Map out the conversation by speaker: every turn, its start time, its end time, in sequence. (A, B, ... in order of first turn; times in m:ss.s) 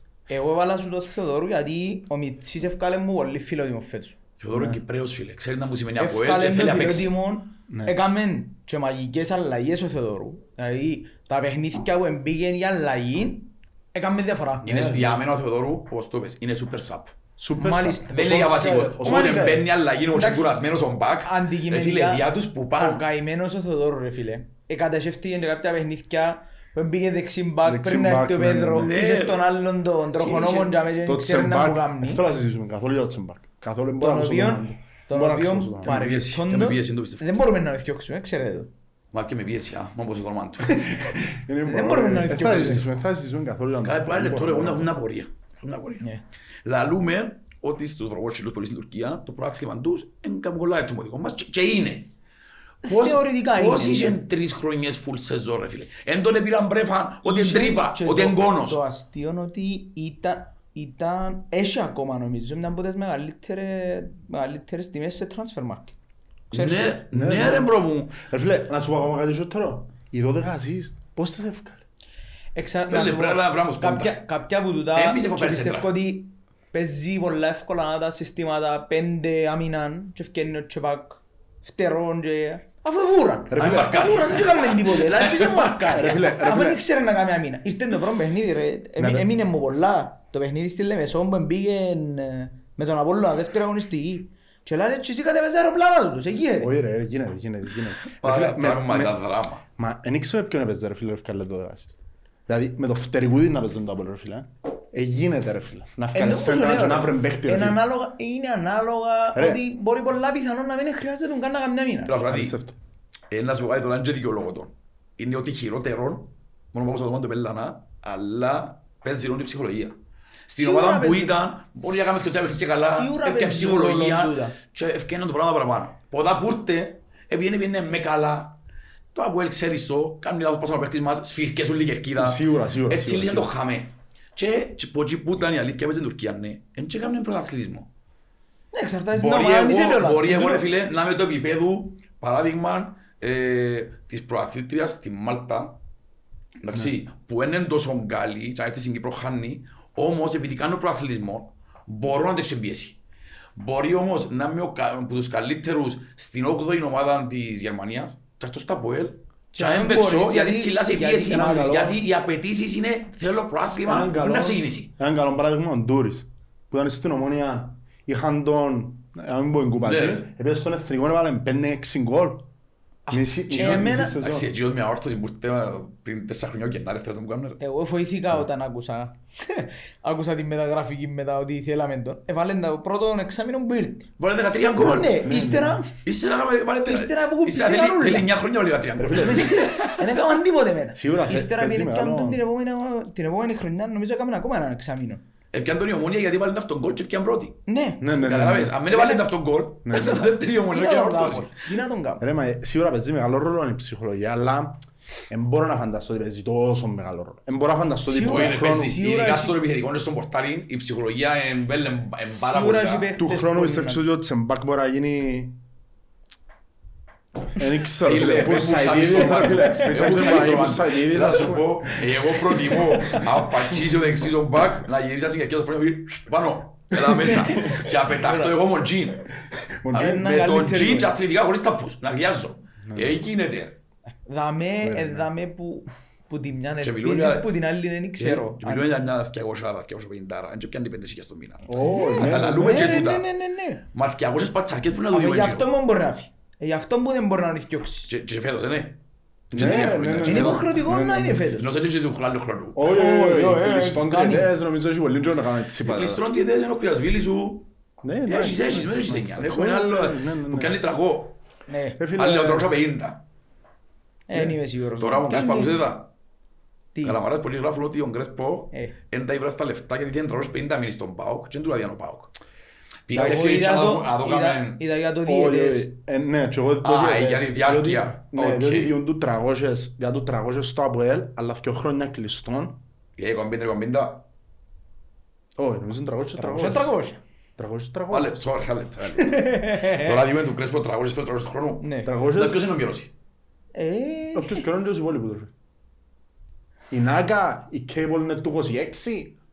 0:00.3-0:04.2 A
0:04.4-0:07.1 B
0:04.5-0:04.8 C
0:06.0-0:15.2 A
0:07.7-0:08.0 C
0:14.6-0:17.1 B
0:17.4-0:19.6 C
0:17.6-0:20.6 A
0:18.1-0:23.0 B
0:21.2-0:32.2 A
0:27.6-0:28.9 C
0:28.8-0:29.4 B
0:30.2-0:30.8 B
0:31.0-0:36.0 C
0:34.0-0:38.7 A
0:35.8-0:37.3 B
0:39.1-0:40.9 B
0:41.0-0:44.9 C
0:41.6-0:42.9 A
0:43.8-0:46.1 B
0:46.6-0:52.1 B
0:52.8-0:54.2 A
0:52.8-0:58.8 B
0:57.2-1:06.0 A
1:06.5-1:07.0 A
1:06.5-1:08.2 B
1:07.1-1:11.8 C
1:12.6-1:36.8 A
1:12.9-1:14.2 B
1:15.0-1:15.9 B
1:23.5-1:24.2 C
1:23.6-1:25.7 B
1:25.9-1:26.8 C
1:29.0-1:29.3 C
1:36.6-1:39.2 C
1:38.2-1:39.6 B
1:39.8-1:47.8 C
1:46.2-1:52.2 A
1:49.4-1:49.6 C
1:52.1-1:52.6 B
1:52.3-1:52.8 C
1:53.3-2:00.0 B
2:00.5-2:08.6 B
2:00.6-2:04.6 A
2:09.1-2:17.9 B
2:12.2-2:13.5 C
2:18.7-2:20.7 A
2:19.1-2:25.8 B
2:26.6-2:33.0 B
2:33.6-2:44.9 B
2:39.5-2:41.8 A
2:41.3-2:42.0 C
2:43.8-2:52.5 C
2:49.8-2:50.3 B
2:53.1-2:54.2 A
2:53.1-2:54.5 C
2:53.5-2:57.6 B
2:57.6-3:04.1 A
3:04.2-3:05.2 B
3:04.8-3:05.9 A
3:04.8-3:05.8 C
3:06.0-3:10.0 B
3:06.8-3:08.3 A
3:09.0-3:09.4 C
3:09.1-3:15.2 A
3:10.9-3:12.4 C
3:15.5-3:17.6 B
3:17.7-3:18.1 A
3:18.0-3:18.8 C
3:18.2-3:21.5 B
3:18.9-3:19.3 A
3:19.8-3:20.4 C
3:20.7-3:22.2 A
3:22.2-3:29.0 C
3:28.1-3:29.6 A
3:28.2-3:33.1 B
3:32.3-3:34.0 A
3:33.2-3:35.6 C
3:37.6-3:42.1 C
3:38.0-3:49.3 B
3:39.9-3:40.4 A
3:47.2-3:47.8 C
3:47.5-3:48.5 A
3:49.8-3:50.2 C
3:49.9-3:53.8 B
3:49.9-3:51.1 A
3:52.9-3:53.2 C
3:54.2-3:58.9 A
3:54.8-3:55.3 C
3:56.8-3:57.5 B
3:58.2-4:03.3 B
4:01.7-4:03.0 C
4:01.9-4:03.8 A
4:03.9-4:05.7 B
4:05.1-4:08.1 A
4:08.1-4:09.0 B
4:09.5-4:10.7 B
4:09.5-4:11.5 C
4:09.6-4:11.7 A
4:11.6-4:12.8 B
4:12.8-4:16.2 C
4:12.8-4:14.5 A
4:15.8-4:17.7 B
4:18.0-4:20.8 C
4:18.3-4:21.4 B
4:21.7-4:22.0 A
4:22.0-4:22.7 C
4:22.2-4:23.2 B
4:24.3-4:25.8 A
4:25.0-4:26.1 B
4:27.0-4:27.2 A
4:27.0-4:32.3 B
4:33.1-4:34.8 B
4:33.1-4:33.6 C
4:33.1-4:35.9 A
4:35.2-4:42.8 C
4:36.8-4:39.0 B
4:43.2-4:44.3 B
4:45.6-4:46.9 C
4:46.4-4:47.2 A
4:47.6-4:48.4 C
4:48.1-4:53.1 B
4:49.1-4:50.3 A
4:51.8-4:52.1 A
4:52.0-4:52.7 C
4:53.8-4:54.6 A
4:54.3-4:55.5 C
4:56.9-4:59.4 C